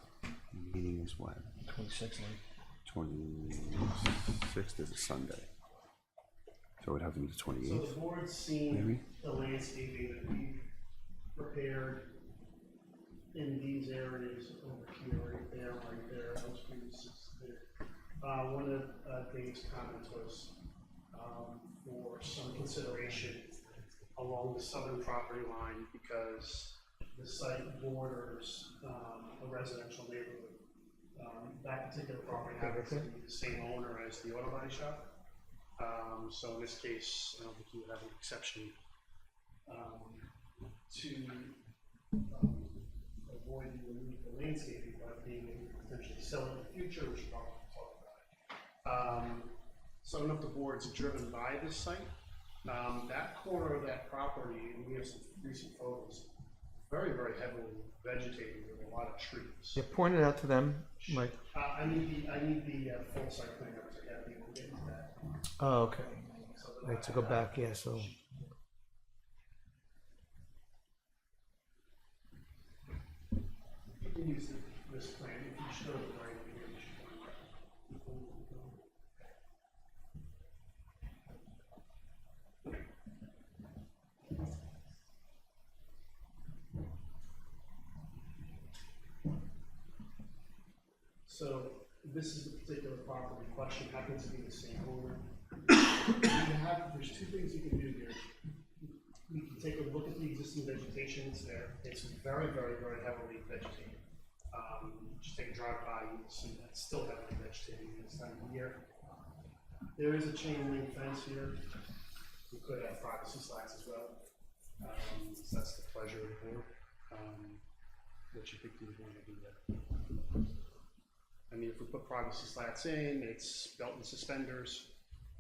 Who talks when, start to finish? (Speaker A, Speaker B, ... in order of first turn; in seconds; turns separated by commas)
Speaker A: 0.5-1.6, Speaker B: 1.7-2.4, Speaker A: 2.9-5.5, Speaker A: 6.8-8.0, Speaker C: 7.6-10.7, Speaker A: 8.7-9.0, Speaker C: 11.3-12.2, Speaker C: 13.3-17.6, Speaker C: 18.2-20.6, Speaker C: 21.1-23.6, Speaker C: 24.1-30.6, Speaker C: 31.1-35.1, Speaker B: 32.6-33.1, Speaker C: 35.8-38.8, Speaker C: 39.7-40.3, Speaker C: 40.9-41.6, Speaker C: 42.3-48.3, Speaker C: 48.8-52.1, Speaker C: 52.6-56.3, Speaker C: 56.9-59.8, Speaker B: 59.8-61.4, Speaker C: 61.0-65.2, Speaker B: 65.6-68.2, Speaker C: 66.5-68.5, Speaker C: 74.0-78.8, Speaker C: 91.3-98.2, Speaker C: 98.8-108.9, Speaker C: 110.0-111.7, Speaker C: 112.5-114.2, Speaker C: 114.8-117.6, Speaker C: 118.3-119.8, Speaker C: 121.5-124.9